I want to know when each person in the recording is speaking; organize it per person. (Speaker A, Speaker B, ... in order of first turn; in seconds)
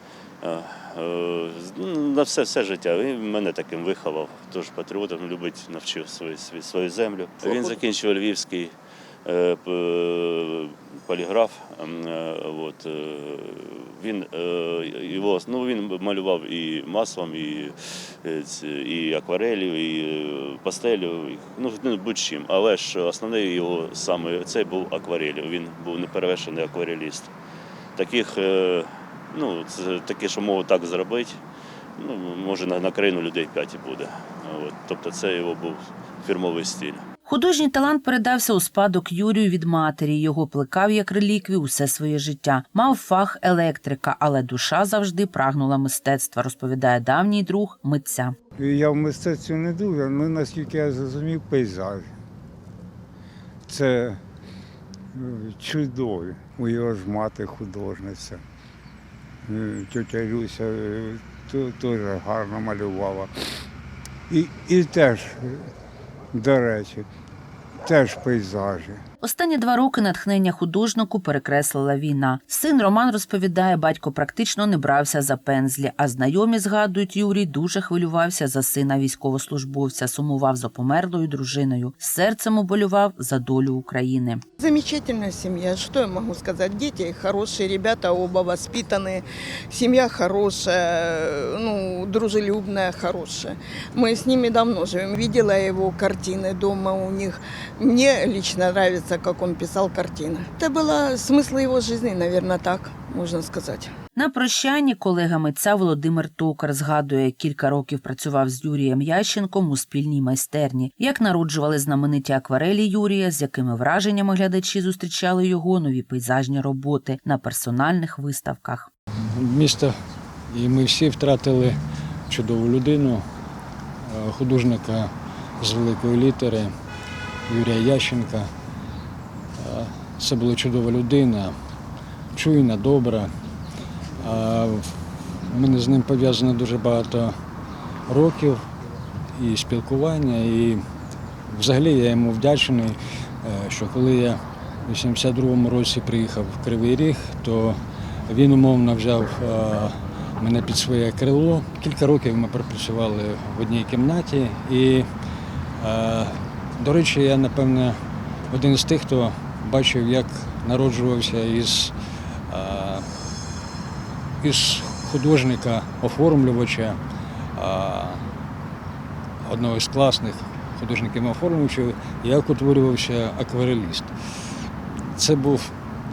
Speaker A: 0.4-8.7, 9.2-27.3, 28.0-31.4, 32.0-37.0
Speaker B: 37.3-48.4, 69.2-84.4, 104.2-118.9
Speaker C: 48.6-52.1, 53.7-54.2, 55.2-58.4, 59.5-63.3, 64.3-65.5, 66.3-67.0, 67.8-69.0
Speaker D: 84.6-103.9
Speaker E: 119.3-120.0, 120.5-121.8, 122.3-123.3, 124.0-126.7, 127.5-128.5, 129.6-131.5, 132.3-133.3, 134.2-135.0, 135.5-137.3, 138.1-138.6, 139.3-140.8, 141.5-155.1, 155.8-158.0, 158.5-161.9, 162.5-163.1, 164.4-167.0, 167.6-168.2, 169.4-174.1, 175.1-175.7